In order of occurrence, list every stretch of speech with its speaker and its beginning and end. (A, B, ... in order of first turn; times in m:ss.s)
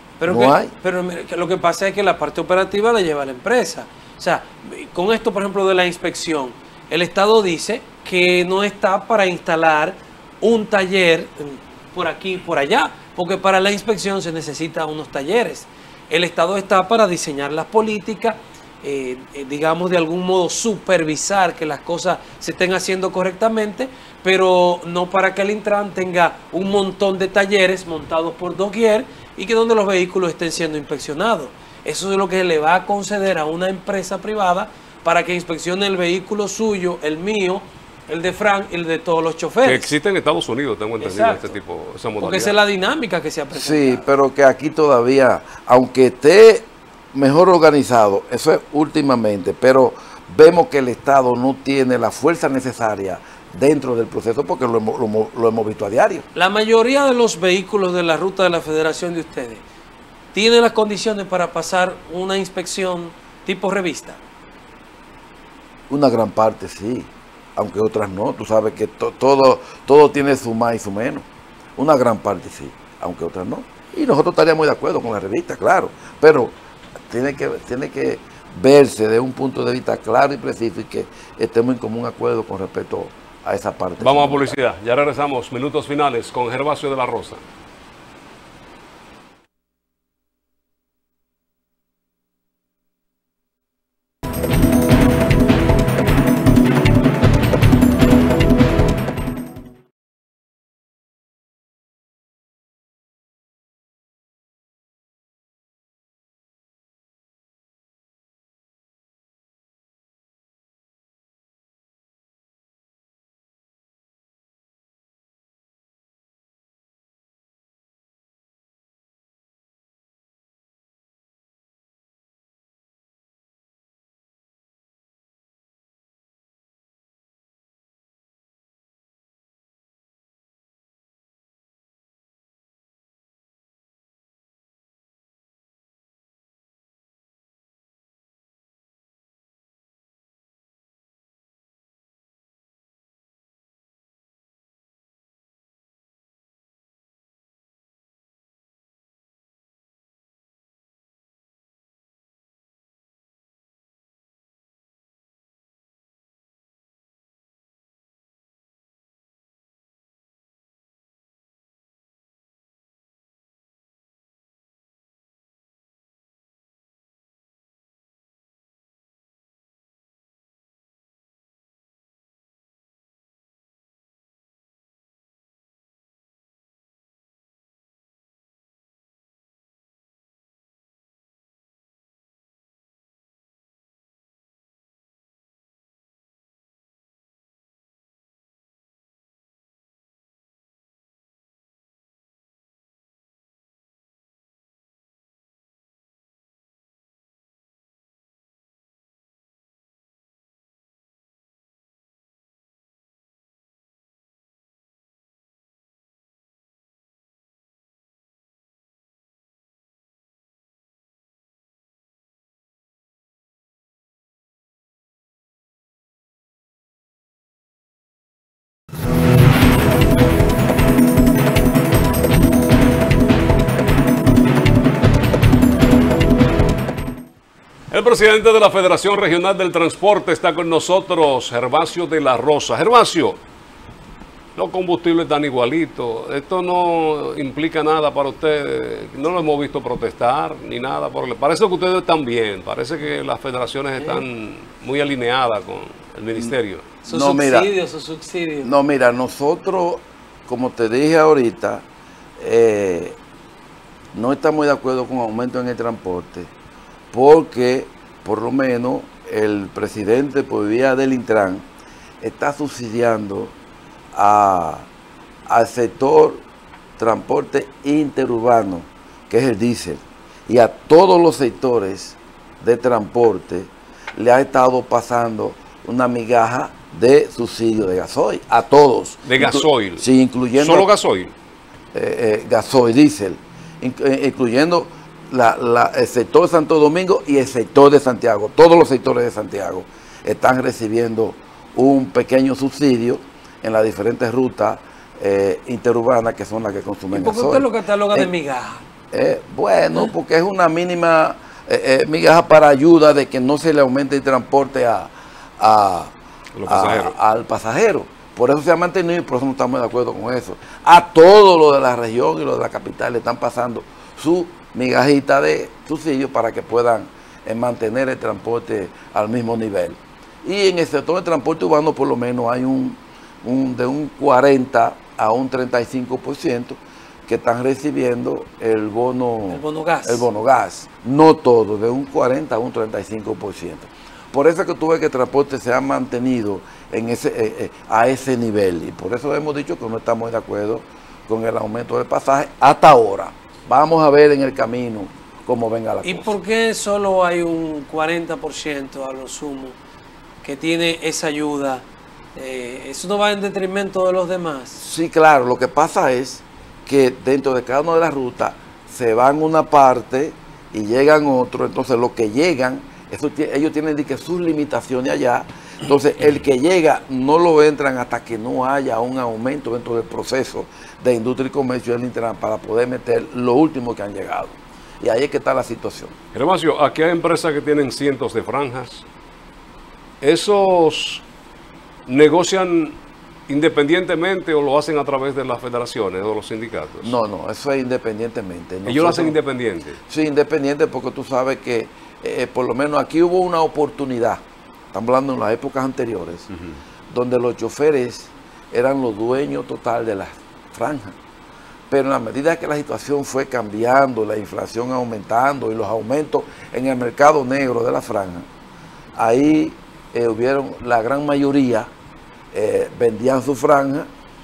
0:00.2-0:39.9 A
0:00.3-0:00.7 B
0:39.6-0:42.6 C
0:41.0-0:41.5 A
0:42.2-0:44.1 A
0:43.6-0:56.3 B
0:56.3-0:59.6 A
1:00.3-1:04.2 A
1:05.9-1:11.3 B
1:11.8-1:16.6 B
1:17.1-1:24.6 B
1:24.0-1:27.4 C
3:47.9-3:53.4 C
3:54.6-4:06.9 C
4:07.0-4:08.7 A
4:07.1-4:07.7 B
4:08.6-4:11.8 B
4:12.4-4:13.2 B
4:14.1-4:16.5 B
4:17.1-4:21.7 B
4:22.2-4:23.6 B
4:24.1-4:24.9 B
4:25.5-4:26.4 B
4:27.0-4:40.9 B
4:39.3-4:40.0 C
4:40.6-4:41.3 C
4:41.9-4:58.3 B
4:57.1-4:58.8 A
4:59.1-5:06.1 B
5:06.6-5:07.2 C
5:06.7-5:46.4 B
5:29.5-5:30.3 A
5:46.0-5:49.8 A
5:50.4-5:54.8 A
5:54.8-6:16.2 B
6:16.3-6:19.0 C
6:20.2-6:21.2 C
6:22.1-6:27.1 C
6:27.0-6:29.4 B
6:28.9-6:30.0 C
6:30.1-6:36.5 B
6:37.1-6:41.2 B
6:41.9-6:48.5 B
6:49.2-6:51.9 B
6:52.5-6:54.1 B